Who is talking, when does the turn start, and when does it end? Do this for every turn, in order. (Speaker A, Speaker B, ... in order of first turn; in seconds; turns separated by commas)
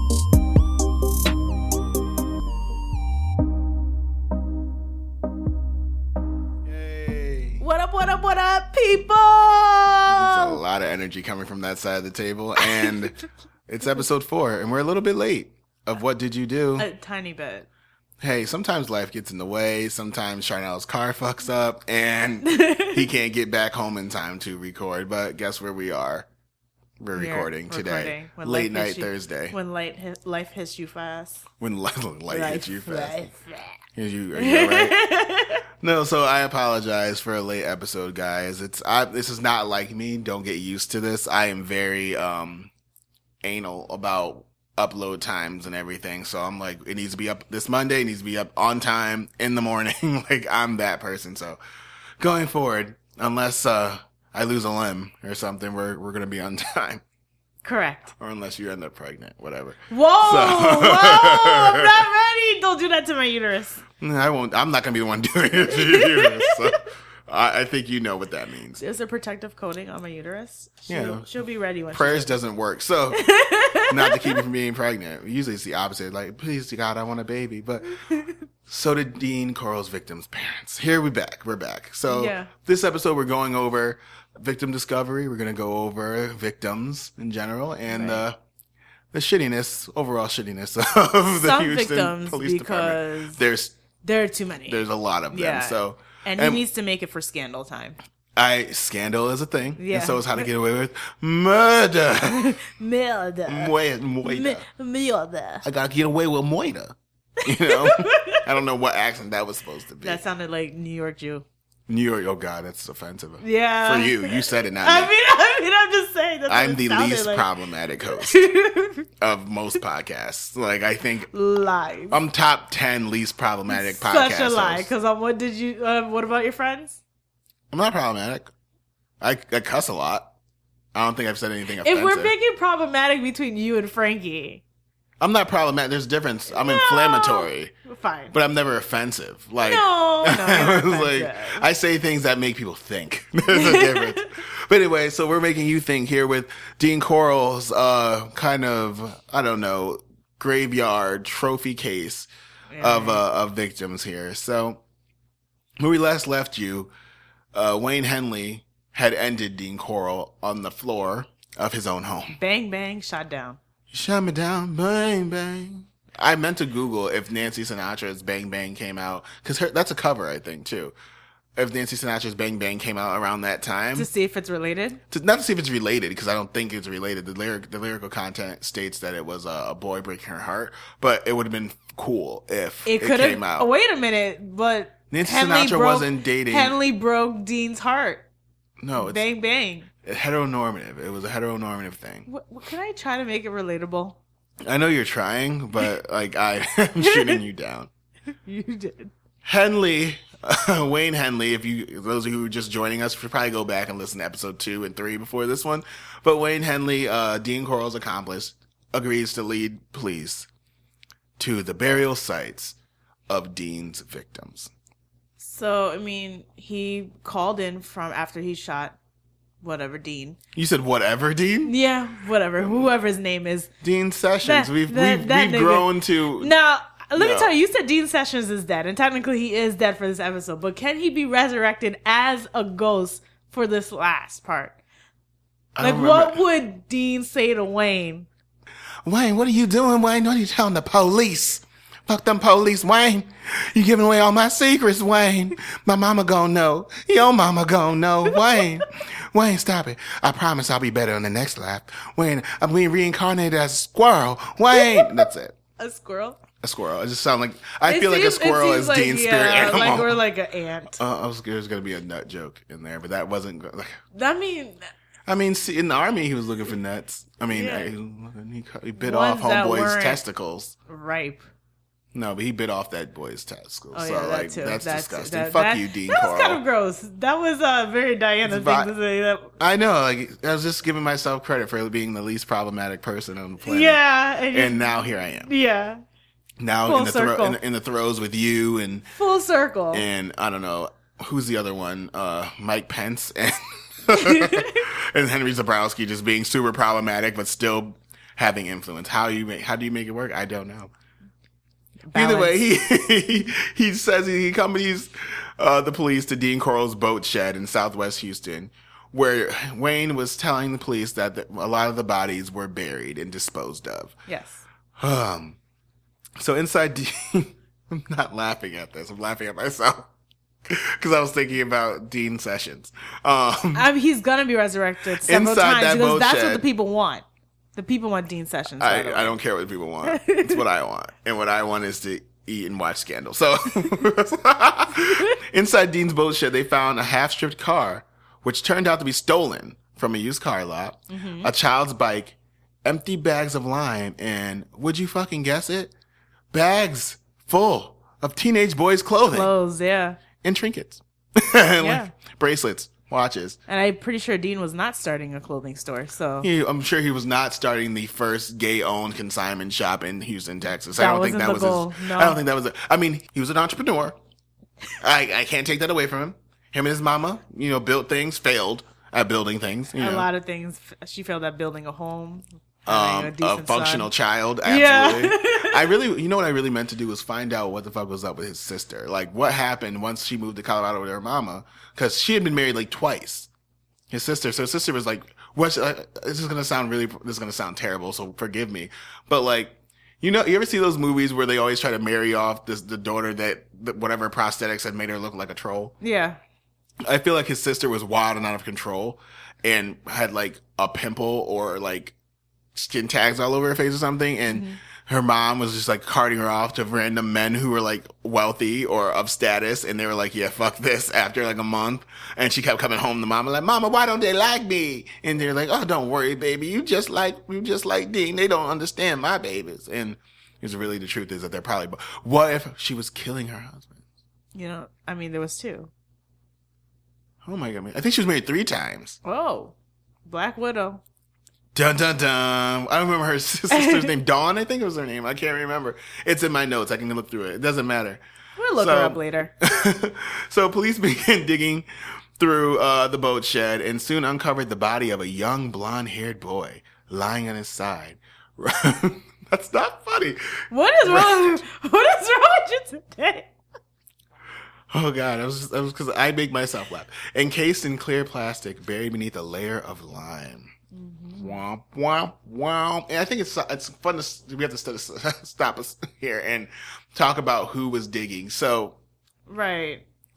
Speaker A: 6.7-7.6, Speaker B: 7.6-10.6, Speaker A: 10.1-13.2, Speaker B: 12.6-13.0, Speaker A: 13.7-16.9, Speaker B: 16.8-17.7, Speaker A: 18.2-26.3, Speaker B: 22.4-23.0, Speaker A: 27.0-29.6, Speaker B: 27.1-31.5, Speaker A: 31.6-33.3, Speaker B: 32.3-33.8, Speaker A: 33.9-35.0, Speaker B: 34.4-35.6, Speaker A: 35.8-42.7, Speaker A: 43.4-51.6, Speaker A: 52.2-57.0, Speaker B: 57.6-58.1, Speaker A: 58.2-62.0, Speaker B: 59.9-63.8, Speaker A: 64.0-68.8, Speaker B: 65.6-66.6, Speaker B: 68.8-72.3, Speaker A: 70.9-71.3, Speaker A: 71.9-73.2, Speaker B: 73.1-74.4, Speaker A: 73.9-78.0, Speaker B: 78.0-78.4, Speaker A: 78.7-88.4, Speaker B: 82.1-82.5, Speaker B: 87.9-88.2, Speaker A: 89.1-93.8, Speaker B: 91.4-93.4, Speaker B: 94.0-98.0, Speaker A: 94.7-96.6, Speaker A: 98.4-102.6, Speaker B: 99.8-100.5, Speaker B: 102.3-105.7, Speaker A: 103.5-104.6, Speaker A: 105.6-110.2, Speaker B: 107.4-108.4, Speaker B: 110.0-111.5, Speaker A: 111.9-115.1, Speaker B: 113.4-117.5, Speaker A: 116.5-118.4, Speaker B: 118.2-119.1, Speaker A: 119.2-121.3, Speaker B: 121.3-122.2, Speaker A: 122.1-124.9, Speaker B: 123.7-127.0, Speaker A: 127.7-128.5, Speaker A: 129.2-130.3, Speaker A: 130.9-132.3, Speaker B: 131.8-134.6, Speaker A: 135.2-137.7, Speaker B: 136.5-138.3, Speaker A: 138.3-152.3, Speaker B: 139.6-141.7, Speaker B: 143.5-144.3, Speaker B: 152.7-153.2, Speaker A: 152.8-154.8, Speaker A: 155.8-156.9, Speaker A: 157.5-162.4, Speaker B: 162.3-163.6, Speaker A: 163.9-170.9, Speaker A: 171.6-174.1, Speaker B: 174.0-175.0, Speaker A: 175.1-183.7, Speaker B: 182.8-188.3, Speaker A: 185.1-186.8, Speaker A: 188.8-189.2, Speaker B: 189.0-189.9, Speaker A: 190.0-192.3, Speaker B: 192.3-194.2, Speaker A: 194.7-197.9, Speaker B: 197.0-197.4, Speaker B: 198.4-199.1, Speaker A: 199.4-210.5, Speaker A: 211.4-212.8, Speaker A: 213.3-214.7, Speaker B: 215.4-219.0, Speaker B: 219.6-220.4, Speaker A: 220.6-221.7, Speaker B: 221.7-223.7, Speaker A: 222.6-222.9, Speaker A: 223.8-226.5, Speaker B: 224.4-234.8, Speaker A: 227.2-227.5, Speaker A: 235.8-236.4, Speaker B: 235.8-238.3, Speaker A: 239.1-255.6, Speaker B: 248.3-248.7, Speaker B: 254.7-255.3, Speaker B: 255.8-256.4, Speaker A: 256.6-260.2, Speaker B: 257.9-261.0, Speaker A: 260.9-264.0, Speaker B: 264.1-264.9, Speaker A: 265.3-270.8, Speaker B: 267.5-267.9, Speaker B: 269.0-270.2, Speaker B: 270.9-271.4, Speaker A: 272.1-276.6, Speaker B: 273.9-279.5, Speaker A: 278.4-278.9, Speaker A: 279.6-284.0, Speaker B: 283.6-286.0, Speaker A: 284.5-285.5, Speaker A: 286.6-289.1, Speaker B: 286.9-287.6, Speaker B: 289.2-290.1, Speaker A: 289.9-300.9, Speaker B: 294.1-294.8, Speaker B: 302.1-302.6, Speaker A: 302.1-314.1, Speaker B: 314.3-314.6, Speaker A: 315.0-315.6, Speaker A: 316.4-320.1, Speaker A: 320.7-323.9, Speaker B: 323.7-329.4, Speaker A: 325.2-326.6, Speaker A: 328.8-345.9, Speaker B: 330.1-330.6, Speaker B: 341.1-341.5, Speaker A: 346.5-349.5, Speaker B: 349.3-350.2, Speaker A: 350.4-353.6, Speaker B: 351.8-352.1, Speaker B: 353.7-356.5, Speaker A: 356.4-364.2, Speaker B: 361.0-362.4, Speaker A: 365.0-370.3, Speaker B: 369.9-374.1, Speaker A: 372.9-383.5, Speaker B: 374.6-375.9, Speaker A: 384.1-395.9, Speaker B: 396.0-396.4, Speaker A: 397.1-402.1, Speaker A: 402.8-424.0, Speaker B: 404.5-404.8, Speaker B: 424.5-425.9, Speaker A: 427.4-429.2, Speaker B: 429.2-431.0, Speaker A: 431.8-438.2, Speaker B: 433.7-434.1, Speaker B: 438.6-439.5, Speaker A: 438.8-441.9, Speaker A: 442.4-451.6, Speaker B: 450.7-453.5, Speaker A: 454.9-460.7, Speaker B: 460.9-461.6, Speaker A: 461.3-469.0, Speaker B: 469.5-470.1